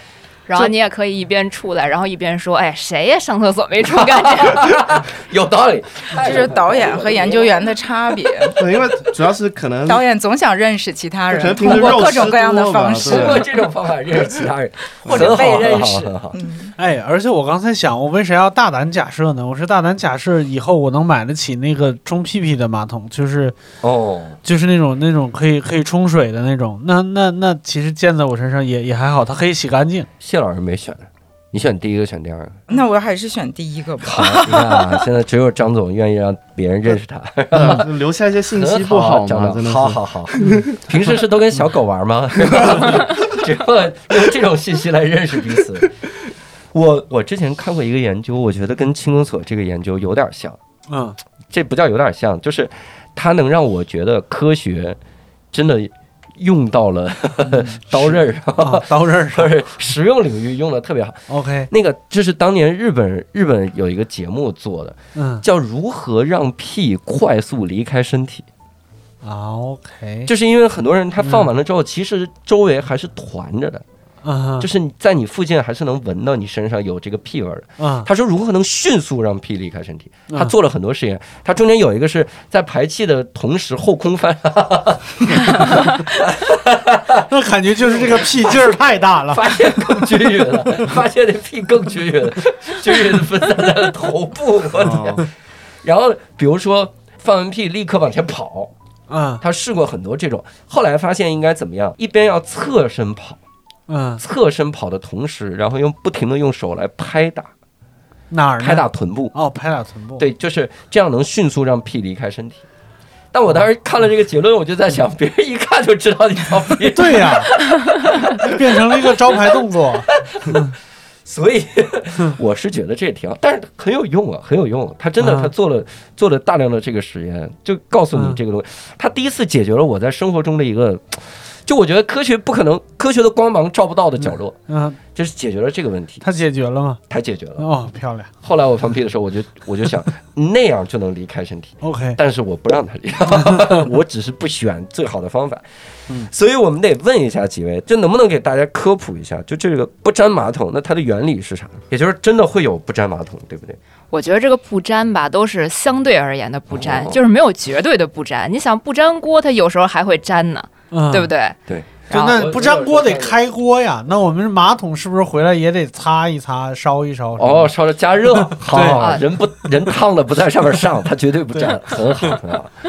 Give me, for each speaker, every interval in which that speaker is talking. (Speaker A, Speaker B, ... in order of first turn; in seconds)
Speaker A: 0.5-4.8, 154.1-161.6, 162.1-162.4
Speaker B: 4.2-7.5, 13.0-16.4, 23.8-24.4, 30.2-32.6, 34.0-37.9, 38.5-45.9, 46.7-50.6, 51.5-55.0, 55.5-68.5, 70.3-73.8, 74.6-87.2, 87.9-95.3, 95.8-98.7, 99.4-103.4, 104.2-107.5, 108.6-109.4, 110.2-112.7, 113.3-120.7, 121.3-134.6, 135.2-136.2, 137.1-137.7, 138.4-145.6, 146.3-153.8, 156.7-157.2, 161.7-163.4, 167.4-172.7
Speaker C: 6.2-8.6, 9.8-13.5, 15.1-16.7, 32.7-35.0
Speaker D: 8.5-10.0, 11.3-13.5, 37.5-40.7, 94.8-95.3
Speaker E: 16.8-23.6, 24.4-30.1, 50.9-51.2, 57.4-59.5, 61.3-61.7, 65.2-65.5, 69.2-70.3, 71.2-71.5, 74.2-74.7, 77.8-78.1, 87.3-91.0, 99.1-99.4, 103.9-104.2, 108.3-110.2, 116.8-117.5, 118.4-120.7, 125.2-125.5, 128.1-128.4, 134.2-135.0, 136.2-137.0, 137.6-138.3, 141.8-142.2, 143.3-143.8, 160.9-161.3, 162.1-167.7, 168.3-169.2, 171.6-172.3